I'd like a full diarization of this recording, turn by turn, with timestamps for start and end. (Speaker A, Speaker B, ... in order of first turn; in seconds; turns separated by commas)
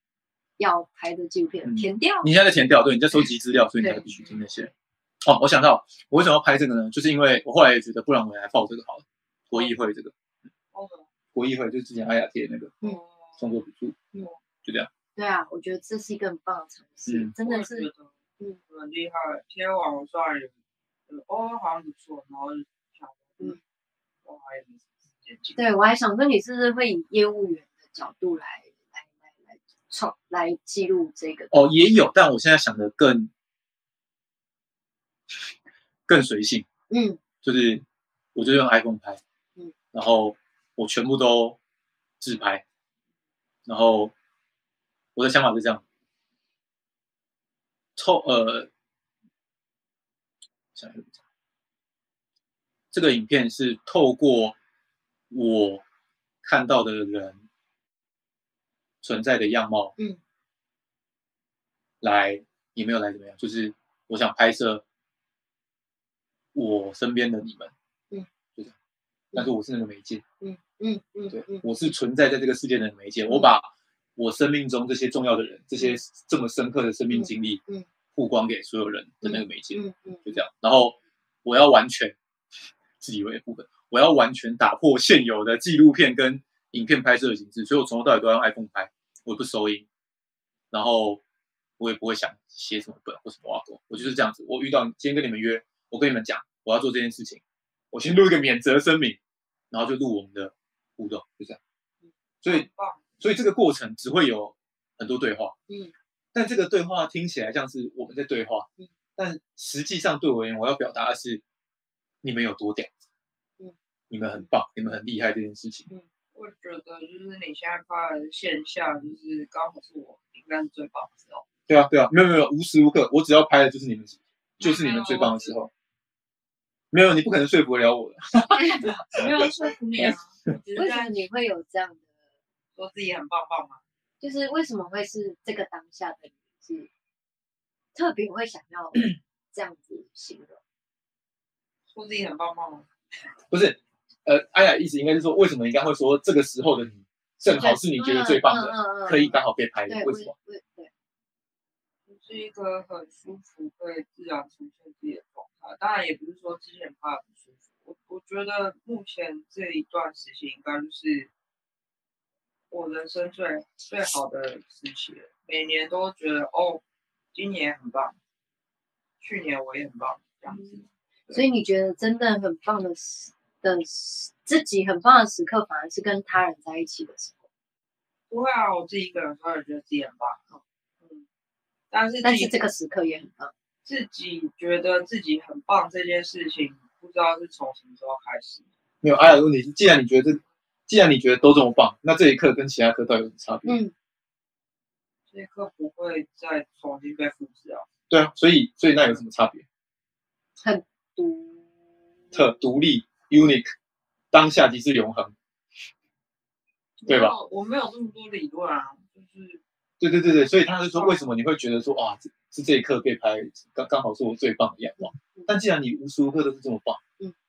Speaker A: 0.6-2.3, Speaker B: 1.6-4.7, Speaker A: 3.2-4.3, Speaker B: 5.2-10.1, Speaker C: 10.7-11.1, Speaker B: 11.3-12.8, Speaker C: 12.8-13.5, Speaker B: 13.4-14.0, Speaker A: 15.2-17.9, Speaker B: 17.1-17.3, Speaker C: 17.4-18.1, Speaker C: 18.7-20.5, Speaker C: 21.1-23.6, Speaker C: 24.2-25.6, Speaker A: 25.6-31.7, Speaker B: 31.5-33.3, Speaker B: 36.1-36.7, Speaker A: 36.9-37.2, Speaker B: 37.4-37.8, Speaker B: 38.3-39.2, Speaker B: 39.9-41.6, Speaker B: 42.2-42.6, Speaker B: 43.6-44.1, Speaker B: 45.1-45.8, Speaker B: 48.0-48.7, Speaker B: 50.7-51.2, Speaker B: 52.9-54.5, Speaker B: 55.3-55.8, Speaker B: 56.4-57.4, Speaker B: 59.0-59.9, Speaker B: 62.0-64.8, Speaker B: 66.5-67.7, Speaker B: 69.3-70.2, Speaker A: 70.4-71.6, Speaker B: 71.3-77.6, Speaker A: 77.1-77.9, Speaker B: 78.1-82.2, Speaker A: 79.2-80.4, Speaker B: 83.0-89.9, Speaker B: 90.7-91.2, Speaker B: 91.8-99.2, Speaker B: 99.7-101.6, Speaker B: 102.4-102.7, Speaker C: 102.5-103.0, Speaker B: 103.2-105.5, Speaker A: 105.7-105.9, Speaker B: 106.3-111.4, Speaker B: 112.2-112.9, Speaker B: 114.1-115.9, Speaker C: 116.3-121.4, Speaker B: 121.7-125.7, Speaker C: 124.6-125.5, Speaker B: 126.9-129.2, Speaker C: 129.1-131.2, Speaker A: 130.8-132.0, Speaker C: 132.8-133.8, Speaker A: 134.2-136.9, Speaker A: 137.9-140.6, Speaker C: 141.9-142.9, Speaker B: 143.5-150.3, Speaker A: 147.6-150.9, Speaker C: 152.1-161.3, Speaker C: 162.7-166.8, Speaker C: 167.3-168.2, Speaker C: 169.2-171.4, Speaker A: 170.5-170.8, Speaker A: 171.3-177.4, Speaker C: 178.3-181.2, Speaker C: 181.9-182.7, Speaker A: 182.2-183.5, Speaker C: 183.8-188.6, Speaker B: 189.0-193.8, Speaker A: 193.7-193.9, Speaker C: 195.3-197.9, Speaker B: 198.1-199.6, Speaker A: 200.6-201.6, Speaker B: 202.3-203.7, Speaker B: 204.3-205.3, Speaker C: 207.0-209.6, Speaker B: 207.1-207.3, Speaker B: 210.0-217.0, Speaker C: 210.8-211.3, Speaker A: 215.1-215.5